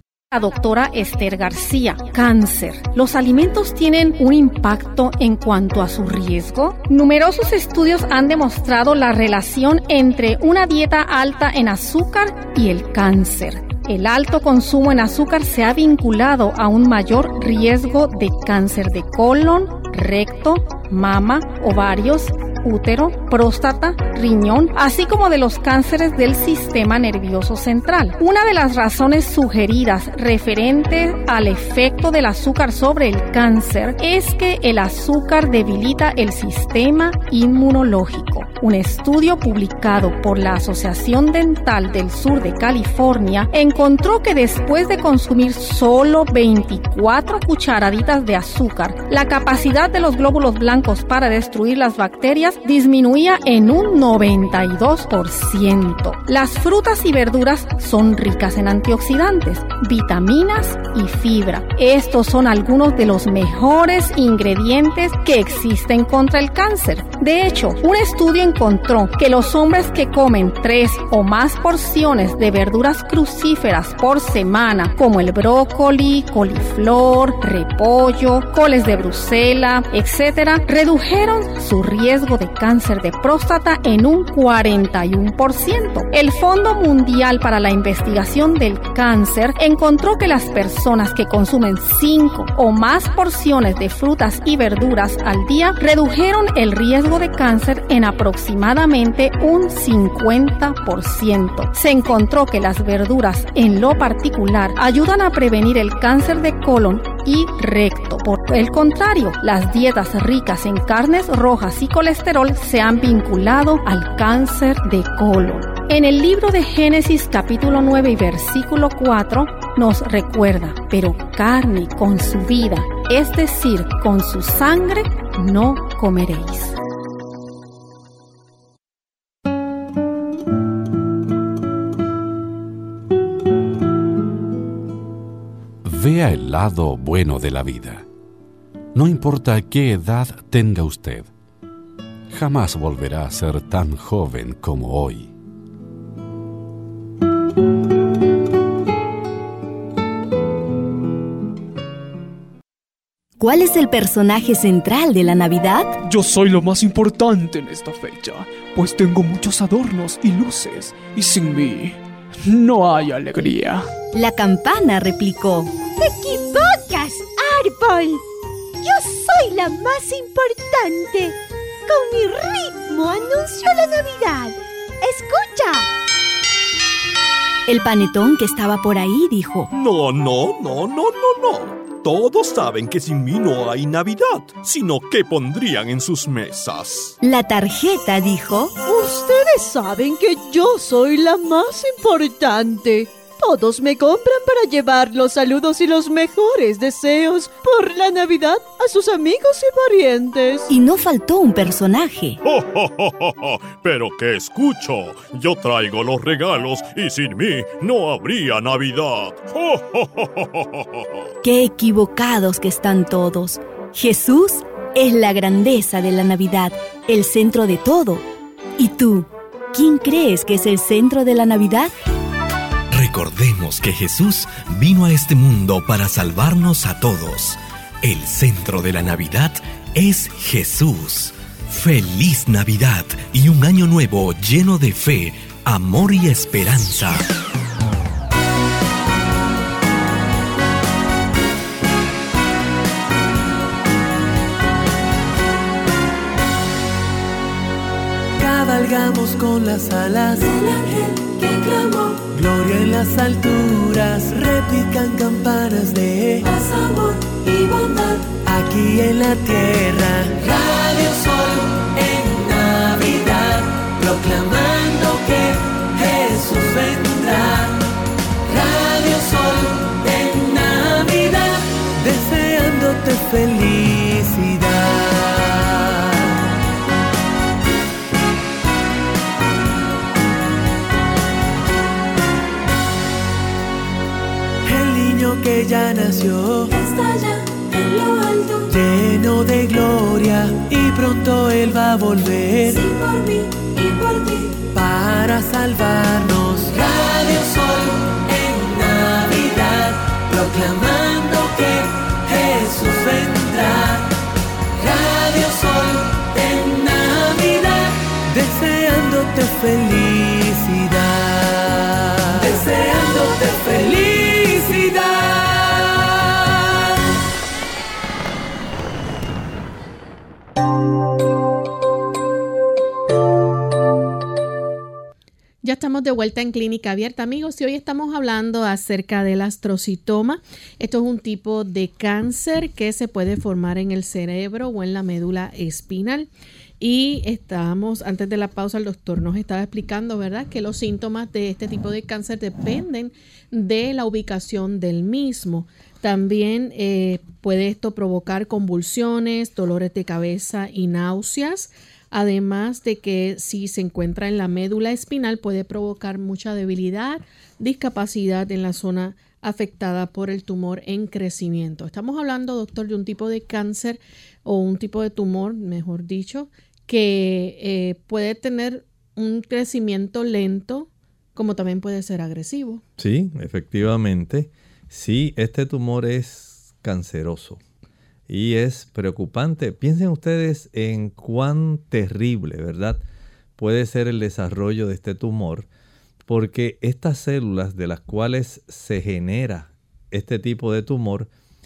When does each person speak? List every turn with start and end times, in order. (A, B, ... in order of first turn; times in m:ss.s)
0:00.3-2:06.8 A
2:15.8-2:18.0 B
2:18.9-2:21.3 B
2:22.3-2:25.3 B
2:33.4-2:36.0 C
2:36.0-2:43.9 D
2:44.1-2:45.8 C
2:45.9-2:48.2 E
2:48.8-2:51.3 E
2:51.9-2:55.9 E
2:57.7-2:59.7 C
2:59.7-3:07.2 F
3:07.2-3:08.8 C
3:08.8-3:20.7 G
3:20.7-3:22.4 C
3:22.4-3:30.8 F
3:31.4-3:38.2 C
3:38.8-3:41.9 C
3:42.9-3:57.2 H
4:08.4-4:11.4 I
4:12.2-4:16.5 I
4:18.4-4:27.8 I
4:28.5-4:36.3 I
4:44.6-4:46.7 I
4:48.7-4:52.9 I
4:54.7-5:04.1 I
5:04.8-5:16.3 I
5:25.6-5:36.3 J
5:36.8-6:12.8 J
6:13.0-6:17.6 K
6:18.3-6:23.0 K
6:23.6-6:25.7 K
6:26.2-6:31.3 K